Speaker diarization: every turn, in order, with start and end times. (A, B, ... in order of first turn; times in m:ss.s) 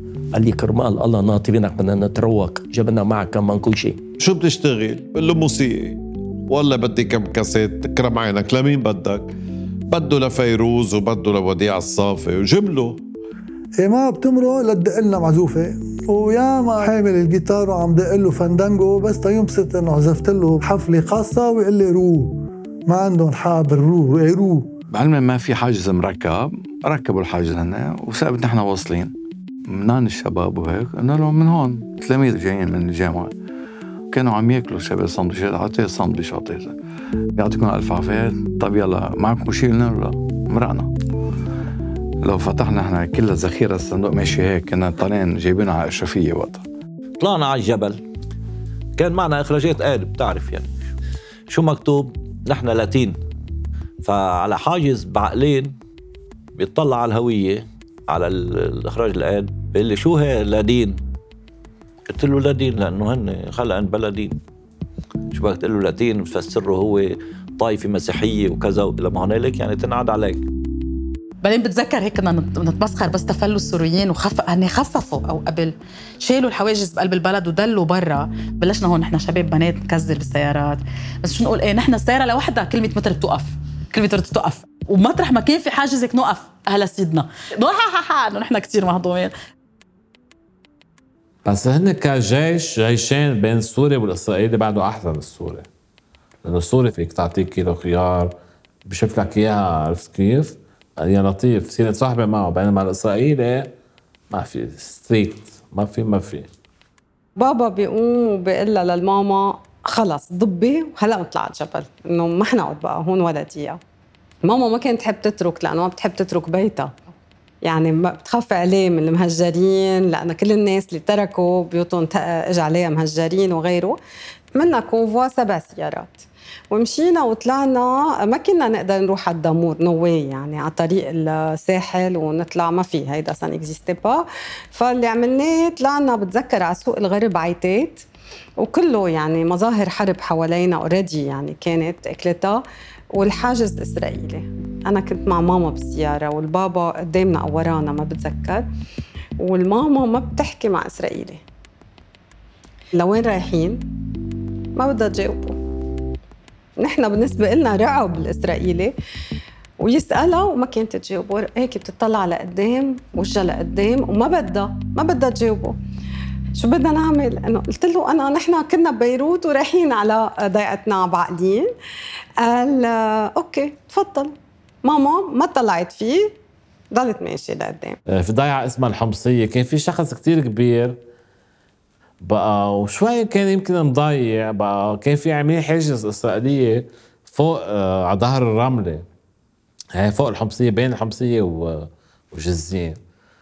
0:00.3-0:04.0 A
0:04.2-0:09.3 B
0:09.9-0:13.0 B
0:13.8-0:24.7 C
0:24.9-0:29.2 D
0:29.7-0:33.4 D
0:34.1-0:36.8 D
0:37.4-0:40.9 D
0:42.2-0:46.6 D
0:47.2-0:48.0 E
0:49.0-0:50.7 E
0:51.5-0:53.2 E
0:54.0-0:55.8 E
0:56.6-1:01.0 E
1:02.1-1:04.4 E
1:05.3-1:10.4 E
1:11.4-1:29.3 F
1:31.4-1:35.7 G
1:36.4-1:38.3 G
1:38.9-1:43.7 G
1:44.3-1:46.5 G
1:47.4-1:53.8 H
1:54.4-1:57.0 H
1:57.6-2:04.0 H
2:04.6-2:18.1 H
2:18.6-2:22.6 H
2:23.1-2:28.7 H
2:29.4-2:31.4 H
2:32.9-2:33.8 H
2:34.8-2:35.6 H
2:36.8-2:38.9 H
2:39.8-2:45.8 H
2:46.6-2:51.7 H
2:52.4-2:56.4 H
2:56.9-2:58.0 H
2:58.1-3:01.0 G
3:02.2-3:09.0 G
3:09.9-3:13.0 G